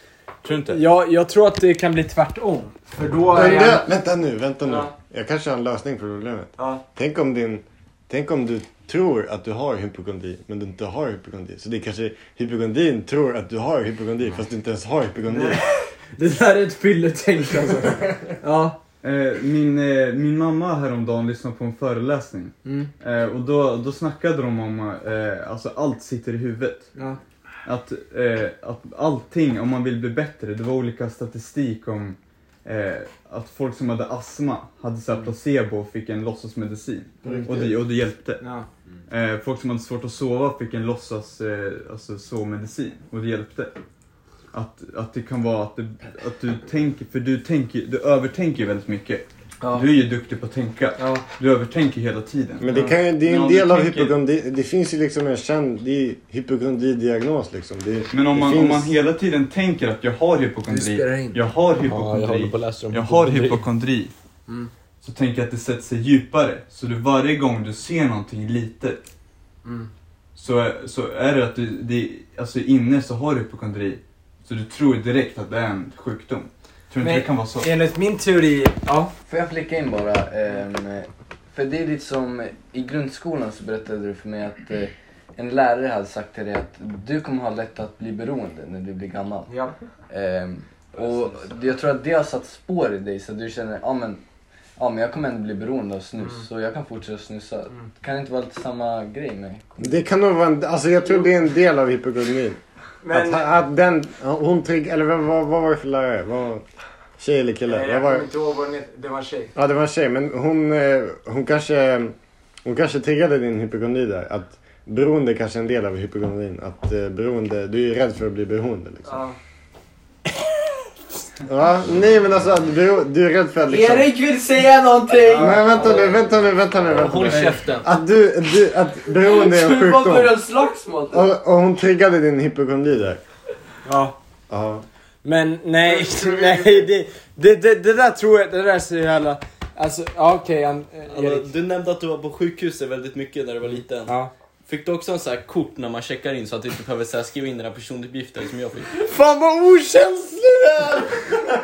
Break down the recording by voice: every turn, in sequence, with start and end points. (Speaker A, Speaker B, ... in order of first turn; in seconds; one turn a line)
Speaker A: 0.4-0.8
Speaker B: 0.7-3.9
Speaker C: 3.3-15.6
Speaker B: 6.6-6.8
Speaker B: 15.3-18.8
Speaker A: 19.0-26.9
Speaker A: 27.6-38.5
Speaker C: 37.2-37.8
Speaker B: 38.4-38.7
Speaker A: 39.1-43.7
Speaker A: 44.5-54.2
Speaker C: 52.6-58.9
Speaker A: 58.1-64.1
Speaker D: 60.7-61.3
Speaker E: 61.9-63.6
Speaker A: 65.0-69.0
Speaker A: 70.4-77.7
Speaker B: 77.0-79.1
Speaker D: 79.3-89.5
Speaker B: 89.5-89.7
Speaker D: 90.1-94.2
Speaker D: 94.8-99.8
Speaker C: 99.8-102.6
Speaker B: 103.0-103.5
Speaker C: 103.1-106.7
Speaker C: 107.2-108.3
Speaker B: 107.7-109.5
Speaker C: 109.5-119.2
Speaker B: 119.1-119.4
Speaker C: 121.4-124.1
Speaker F: 123.7-126.2
Speaker C: 125.3-130.4
Speaker E: 126.9-127.9
Speaker F: 129.2-131.3
Speaker C: 131.1-133.2
Speaker B: 133.9-134.2
Speaker C: 134.5-134.8
Speaker B: 135.2-141.5
Speaker C: 135.8-136.9
Speaker E: 141.1-144.2
Speaker E: 144.7-148.9
Speaker C: 149.1-151.1